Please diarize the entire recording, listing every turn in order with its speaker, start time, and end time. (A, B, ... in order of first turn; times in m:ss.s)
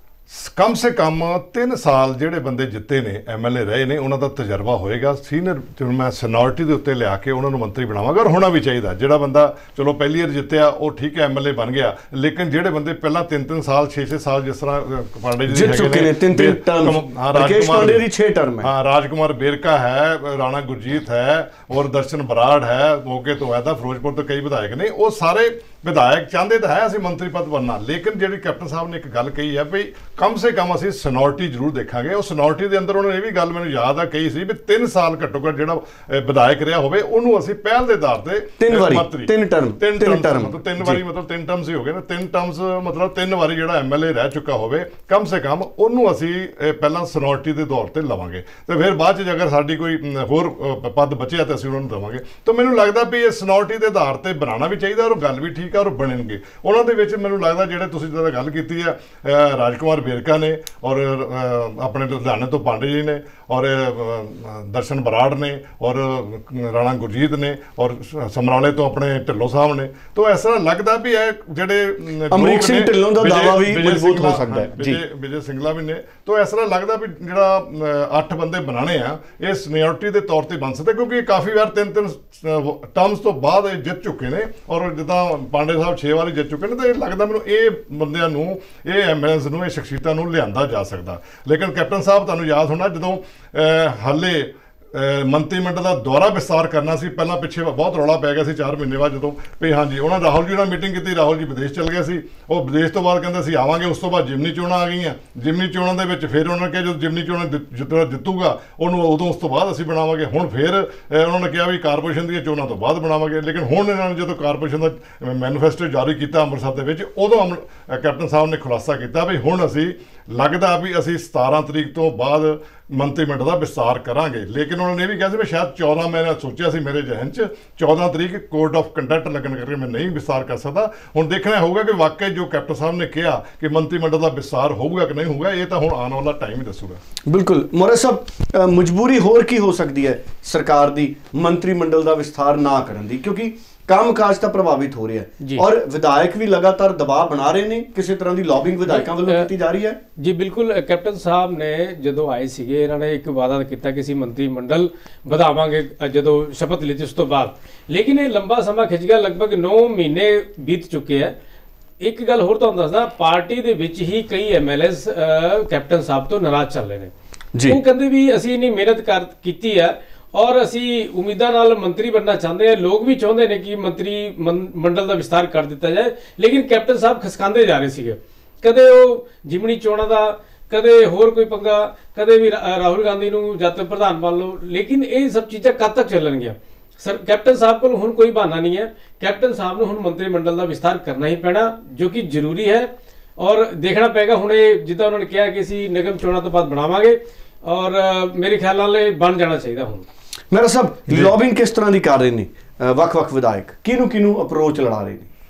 0:00.3-0:18.0 A
0:15.5-0:18.7 B
0:18.6-2:17.0 A
0:38.6-0:41.0 B
1:12.3-1:15.0 B
2:17.3-2:30.0 B
2:28.9-2:29.5 C
2:30.2-2:41.3 C
2:42.0-2:47.1 C
2:47.5-2:47.8 B
2:47.7-3:20.0 C
3:20.5-3:25.3 B
3:21.1-3:21.3 A